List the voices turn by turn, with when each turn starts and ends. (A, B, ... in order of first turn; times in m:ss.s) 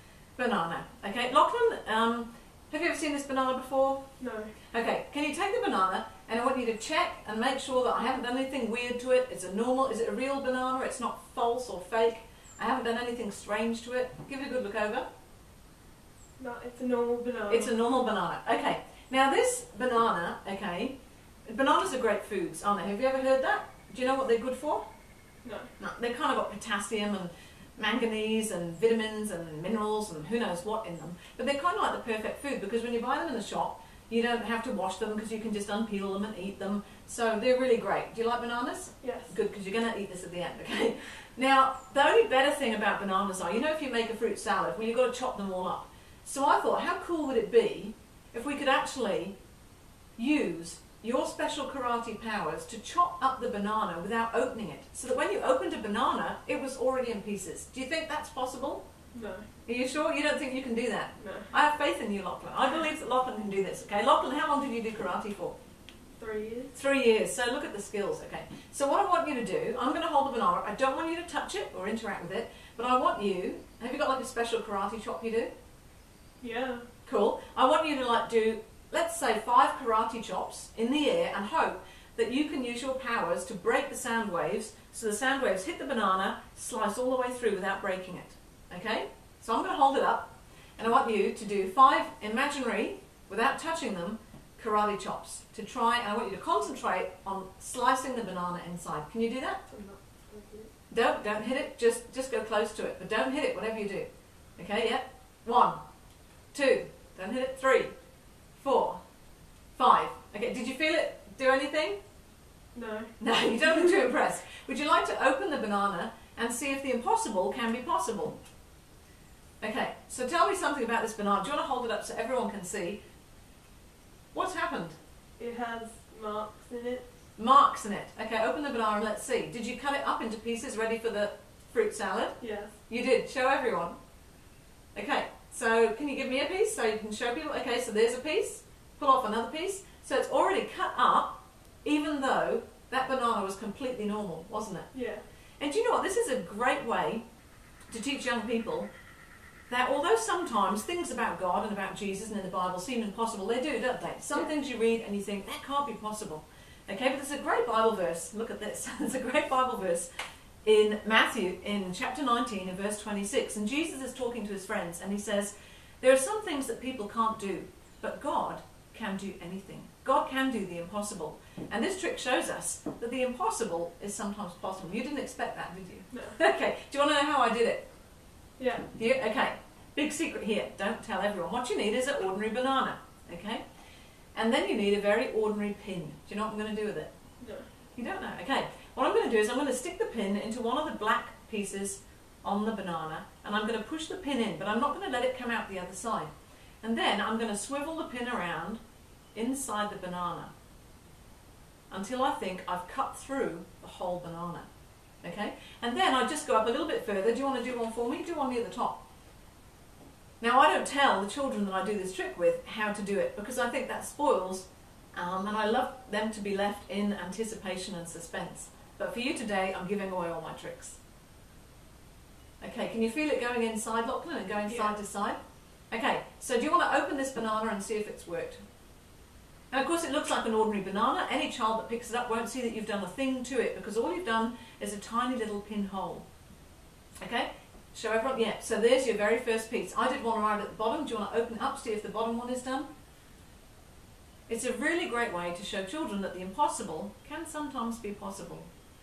0:00.4-0:04.1 A
0:04.2-0:04.5 B
0:04.7-0:15.1 A
0:16.4-0:17.7 B
0:17.5-0:21.0 A
0:21.5-0:24.8 A
0:25.4-0:25.7 B
0:25.8-0:49.4 A
0:39.0-0:39.3 B
0:50.2-0:58.8 A
0:59.1-0:59.5 B
0:59.7-1:05.6 A
1:01.2-1:01.5 B
1:06.2-1:06.7 B
1:06.7-1:15.5 A
1:16.4-1:16.9 B
1:17.1-1:39.6 A
1:39.7-1:40.7 B
1:40.9-1:45.8 A
1:46.5-1:47.9 A
1:48.6-1:49.0 A
1:49.8-1:52.0 A
1:52.7-1:53.1 B
1:53.2-1:58.4 A
1:59.6-2:03.0 A
2:04.3-2:05.0 A
2:05.4-2:07.0 B
2:07.4-2:14.0 A
2:12.4-2:12.8 B
2:15.0-2:24.9 A
2:24.9-2:25.2 B
2:25.6-2:27.2 A
2:27.9-2:28.9 A
2:29.7-2:40.1 A
2:40.6-2:57.9 A
2:56.1-2:56.4 B
2:58.6-2:58.9 B
2:58.9-3:03.6 A
3:04.4-3:07.1 A
3:07.4-3:07.7 B
3:08.0-3:16.3 A
3:16.8-3:18.8 A
3:19.4-3:20.5 A
3:21.9-3:24.7 A
3:25.2-3:29.0 A
3:30.4-3:41.0 A
3:42.6-3:45.4 A
3:44.7-3:45.0 B
3:45.9-3:48.6 A
3:49.7-3:56.3 A
3:57.2-4:02.9 A
4:04.5-4:08.7 A